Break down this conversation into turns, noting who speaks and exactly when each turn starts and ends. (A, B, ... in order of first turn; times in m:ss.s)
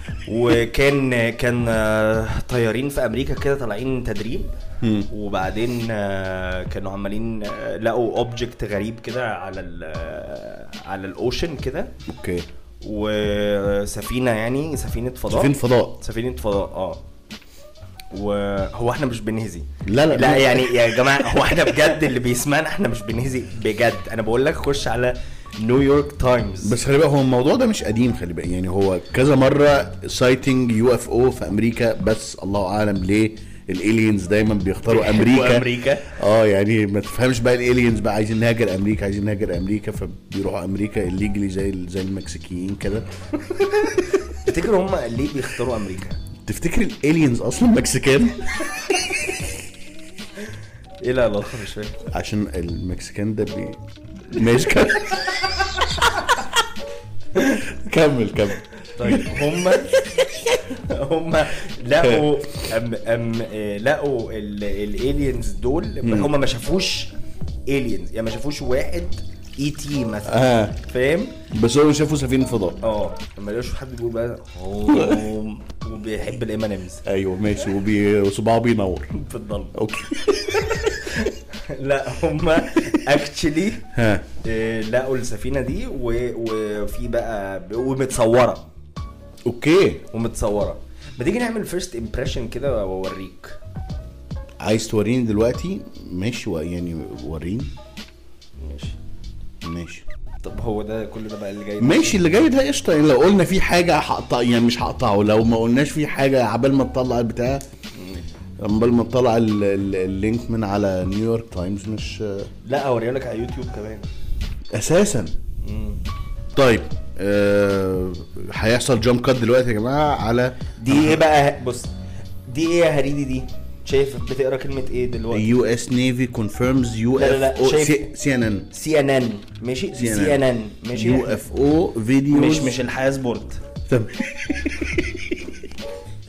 0:00.2-0:04.5 A
0:04.8-0:05.1 B
0:05.1-0:11.9 A
0:12.1-0:12.5 B
0:12.8-0:17.0 A
0:15.3-0:16.0 B
0:18.1-0:26.8 A
0:19.8-0:21.8 B
0:26.6-0:43.1 B
0:34.9-0:36.1 A
0:43.6-0:46.2 A
0:46.4-0:48.5 B
0:51.0-0:52.0 A
0:52.1-0:55.9 B
0:57.4-1:00.5 B
0:58.9-1:00.0 A
1:00.7-1:07.1 A
1:06.0-1:06.3 B
1:07.7-1:11.4 A
1:10.2-1:10.8 B
1:11.5-1:12.8 B
1:12.8-1:17.0 A
1:14.9-1:15.3 B
1:17.0-1:19.1 B
1:19.1-1:19.7 A
1:19.7-1:20.8 B
1:20.7-1:23.8 A
1:23.9-1:24.2 B
1:24.4-1:28.7 A
1:29.4-1:30.0 B
1:30.1-1:33.6 A
1:34.6-1:37.7 B
1:38.6-1:39.0 A
1:39.6-1:40.0 B
1:40.4-1:42.2 A
1:41.8-1:47.6 B
1:47.9-1:48.3 A
1:48.6-1:52.5 B
1:52.6-1:54.1 A
1:54.7-1:55.3 B
1:55.6-1:56.0 A
1:56.5-2:01.2 B
2:00.8-2:01.9 A
2:02.4-2:05.5 A
2:05.3-2:08.7 B
2:07.2-2:08.1 A
2:08.7-2:11.4 A
2:09.9-2:12.8 B
2:12.3-2:13.6 A
2:13.9-2:15.4 B